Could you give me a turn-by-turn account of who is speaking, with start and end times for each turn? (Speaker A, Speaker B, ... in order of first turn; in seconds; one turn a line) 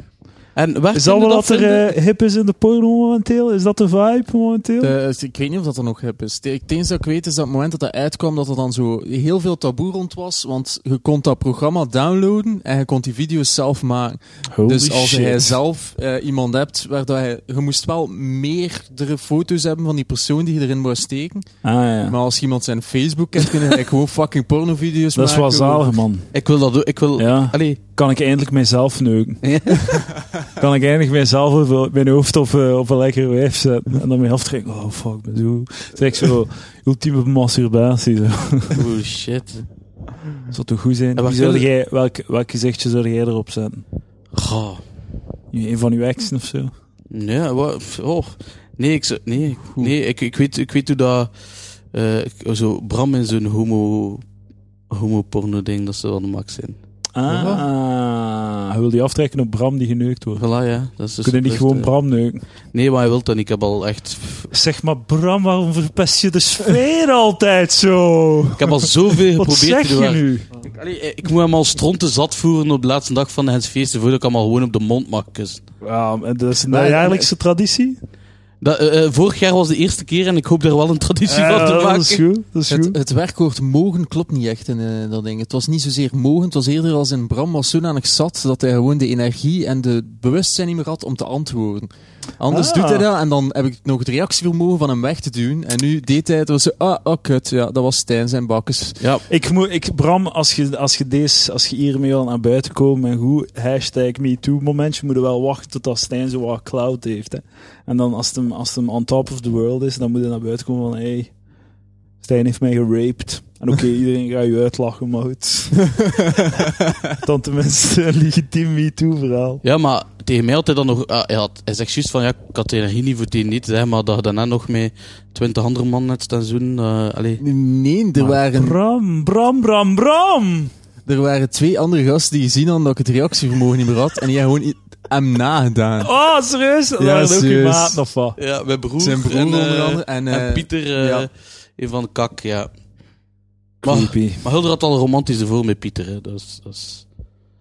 Speaker A: 0.6-1.9
Speaker B: 0.9-4.9
Speaker C: 4.8-21.5
Speaker B: 14.5-15.6
Speaker B: 21.6-22.2
Speaker C: 22.1-26.0
Speaker B: 25.1-26.3
Speaker A: 26.3-27.8
Speaker B: 27.2-29.4
Speaker A: 29.4-30.1
Speaker B: 30.6-38.8
Speaker A: 38.7-39.7
Speaker B: 40.5-43.8
Speaker A: 41.2-41.7
Speaker A: 44.3-44.8
Speaker B: 45.5-46.7
Speaker A: 47.1-51.3
Speaker A: 51.9-54.2
Speaker A: 54.9-56.8
Speaker B: 57.1-60.4
Speaker C: 57.3-57.6
Speaker A: 60.4-61.9
Speaker B: 61.2-62.4
Speaker A: 62.7-64.5
Speaker B: 64.5-70.5
Speaker A: 68.6-75.6
Speaker B: 75.8-78.0
Speaker C: 76.7-77.3
Speaker A: 78.6-82.2
Speaker B: 81.3-83.0
Speaker C: 82.7-99.0
Speaker B: 92.5-93.0
Speaker A: 99.0-99.3
Speaker B: 99.3-111.3
Speaker B: 112.2-119.6
Speaker A: 119.6-127.4
Speaker C: 127.4-128.8
Speaker B: 128.2-130.7
Speaker C: 131.1-136.1
Speaker B: 136.0-138.4
Speaker C: 137.0-138.0
Speaker A: 138.4-142.7
Speaker C: 139.0-141.3
Speaker A: 143.8-147.0
Speaker B: 143.8-144.4